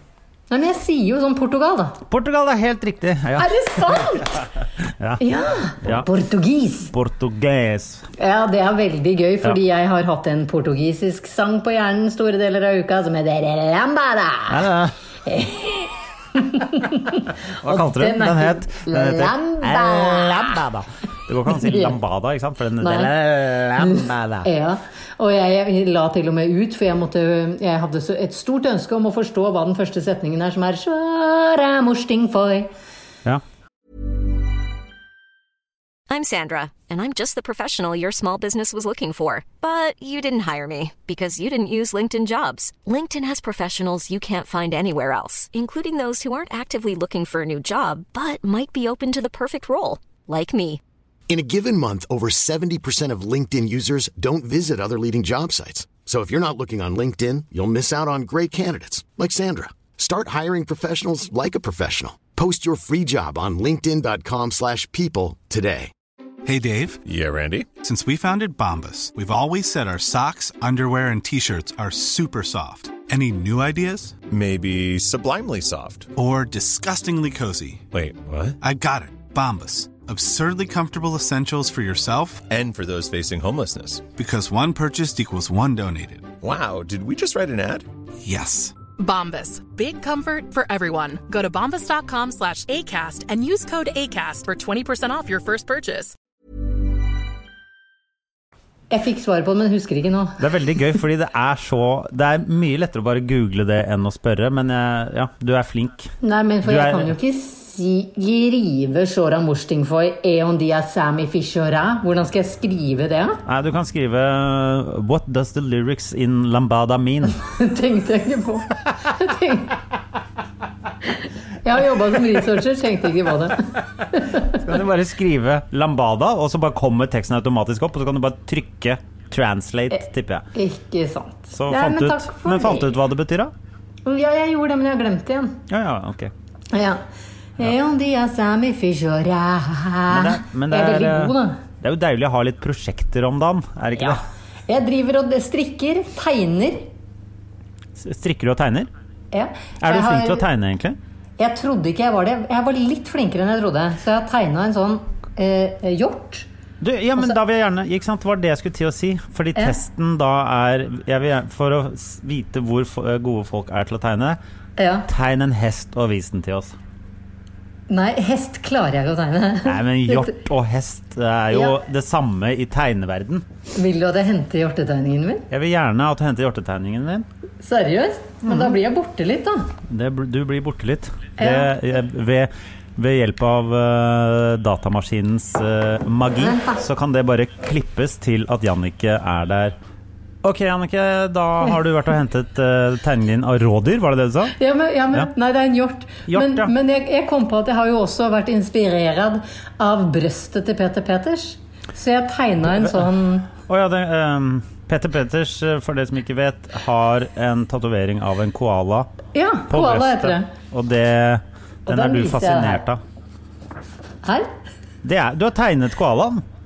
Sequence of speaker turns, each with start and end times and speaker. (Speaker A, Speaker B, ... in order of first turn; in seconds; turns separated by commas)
Speaker A: 0.5-2.0, Speaker B: 2.1-4.3, Speaker A: 3.4-4.4, Speaker A: 5.2-6.9, Speaker B: 5.8-6.1, Speaker B: 6.9-8.1, Speaker A: 8.2-14.6, Speaker B: 14.5-14.9, Speaker A: 15.2-20.6, Speaker B: 17.6-24.5, Speaker A: 21.5-21.9, Speaker A: 22.8-23.1, Speaker A: 23.8-32.7, Speaker C: 36.1-50.8, Speaker D: 51.3-65.9, Speaker E: 66.4-67.0, Speaker F: 67.0-67.7, Speaker E: 67.8-74.2, Speaker F: 74.2-76.1, Speaker E: 76.1-77.8, Speaker F: 77.9-78.6, Speaker E: 78.6-82.5, Speaker F: 82.5-84.1, Speaker E: 84.2-86.3, Speaker F: 86.4-87.8, Speaker E: 88.2-88.7, Speaker G: 89.0-96.1, Speaker A: 98.9-100.4, Speaker B: 100.4-106.1, Speaker A: 106.2-113.4, Speaker B: 106.6-107.1, Speaker B: 113.5-117.4, Speaker A: 117.4-119.8, Speaker A: 121.6-124.6, Speaker B: 124.5-130.4, Speaker A: 129.9-132.9, Speaker B: 131.5-133.5, Speaker A: 134.0-135.6, Speaker B: 135.7-136.3, Speaker A: 136.7-137.0, Speaker A: 137.6-141.6, Speaker B: 140.1-144.2, Speaker A: 144.0-146.9, Speaker B: 148.0-148.9, Speaker A: 149.3-150.4, Speaker B: 149.8-151.0, Speaker A: 151.4-156.5, Speaker B: 156.8-164.4, Speaker A: 164.8-165.1, Speaker B: 165.1-166.7, Speaker A: 167.9-170.3, Speaker B: 169.7-173.4, Speaker A: 171.5-171.8, Speaker A: 173.7-175.4, Speaker B: 175.5-177.2, Speaker A: 177.6-179.7, Speaker B: 178.4-178.7, Speaker B: 179.9-189.7, Speaker A: 181.4-181.7, Speaker A: 186.4-186.8, Speaker B: 190.4-194.5, Speaker A: 194.6-203.5, Speaker B: 196.3-196.7, Speaker B: 202.7-209.1, Speaker A: 209.3-210.5, Speaker B: 209.7-213.0, Speaker A: 211.9-212.8, Speaker A: 214.2-214.5, Speaker B: 215.0-216.4